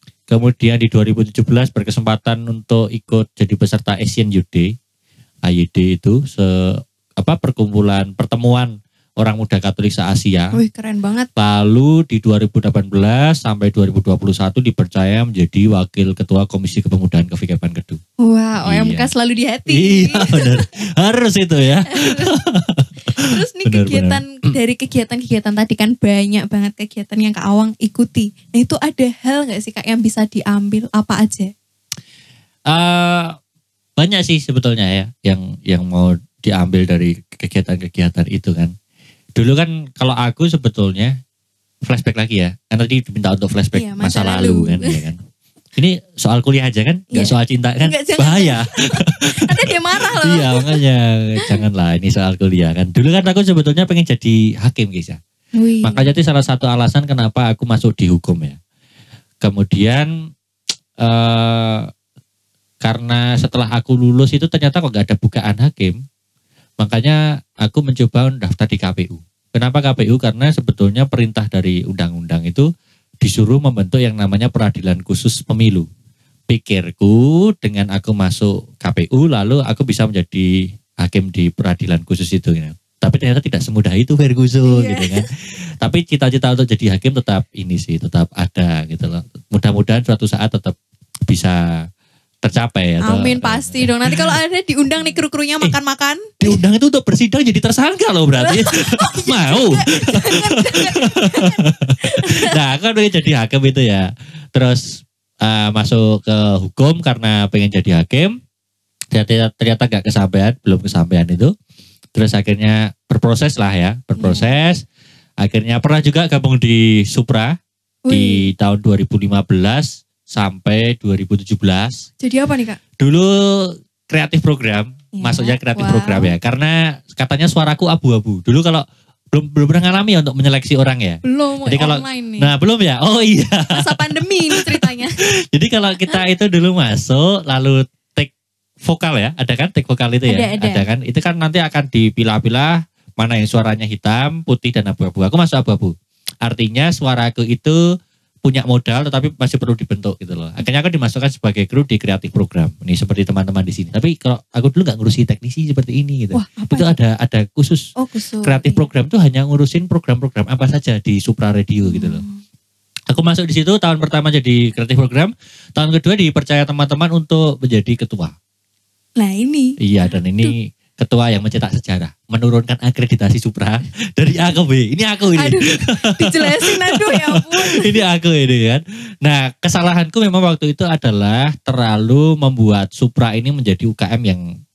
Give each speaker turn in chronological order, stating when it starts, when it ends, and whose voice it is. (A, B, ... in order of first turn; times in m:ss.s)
0:00.3-0:04.7 A
0:05.5-0:10.6 A
0:10.5-0:11.3 B
0:11.4-0:18.0 A
0:18.2-0:20.6 B
0:18.6-0:19.1 A
0:19.7-0:22.9 A
0:21.9-0:22.4 B
0:23.2-0:31.5 B
0:23.6-0:24.2 A
0:32.7-0:33.4 A
0:34.0-0:38.7 A
0:39.4-0:41.2 A
0:41.8-0:45.2 A
0:43.7-0:45.0 B
0:45.8-0:49.5 A
0:47.1-0:50.8 B
0:50.2-0:55.2 A
0:55.6-0:56.1 B
0:55.8-0:58.6 A
0:59.4-1:00.1 A
1:01.0-1:01.9 A
1:02.8-1:06.0 A
1:06.8-1:12.7 A
1:13.2-1:15.9 A
1:16.5-1:20.5 A
1:21.0-1:25.3 A
1:24.7-1:25.2 B
1:25.8-1:30.8 A
1:31.3-1:31.6 A
1:32.4-1:34.3 A
1:33.0-1:36.6 B
1:36.4-1:48.4 A
1:38.4-1:42.6 B
1:49.1-1:51.5 A
1:52.1-1:54.8 A
1:54.2-1:54.5 B
1:55.4-1:57.6 A
1:58.1-1:58.4 B
1:58.1-2:02.1 A
2:02.2-2:02.8 B
2:03.0-2:13.8 A
2:05.2-2:06.3 B
2:11.2-2:12.5 B
2:13.7-2:15.3 B
2:14.5-2:14.9 A
2:15.5-2:18.3 A
2:18.8-2:25.9 A
2:20.3-2:20.9 B
2:26.4-2:27.8 A
2:28.4-2:37.9 A
2:36.3-2:36.9 B
2:38.0-2:38.9 B
2:38.4-2:42.2 A
2:41.9-2:42.4 B
2:43.1-2:48.3 A
2:49.2-2:50.5 B
2:49.8-3:04.4 A
2:55.4-2:58.0 B